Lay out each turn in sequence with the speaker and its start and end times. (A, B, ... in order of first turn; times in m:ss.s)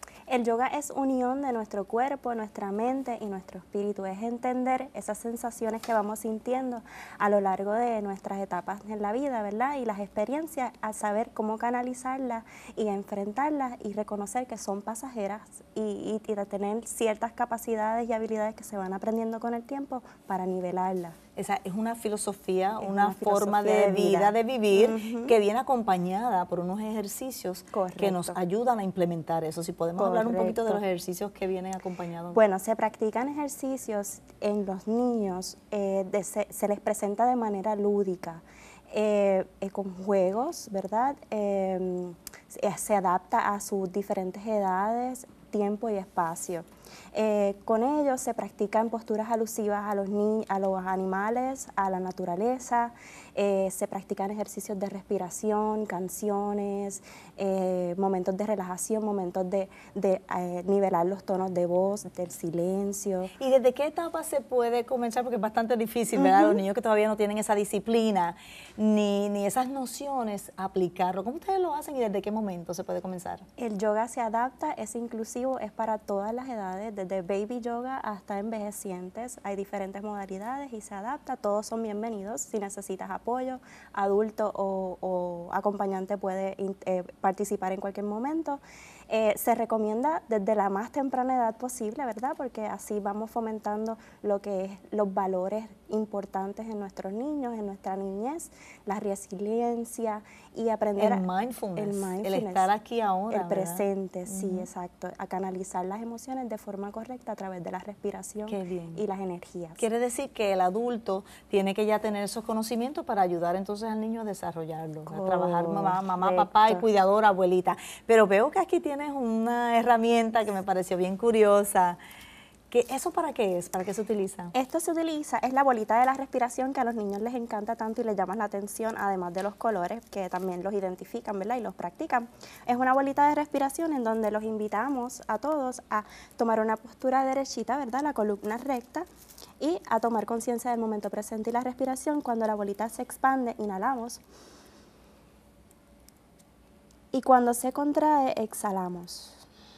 0:00.3-0:21.2 A
0:21.4-0:32.4 B
0:22.8-0:25.4 A
0:27.7-0:28.4 A
0:30.0-0:30.8 A
0:32.3-1:03.3 A
1:03.4-1:13.4 B
1:06.2-1:06.6 A
1:13.6-1:41.2 A
1:41.0-1:44.7 B
1:41.8-1:42.7 A
1:43.3-1:49.8 A
1:48.5-1:49.0 B
1:49.8-2:02.0 B
1:55.1-1:56.9 A
2:02.7-2:04.5 B
2:04.5-2:19.1 A
2:19.6-2:24.2 A
2:27.1-2:29.5 A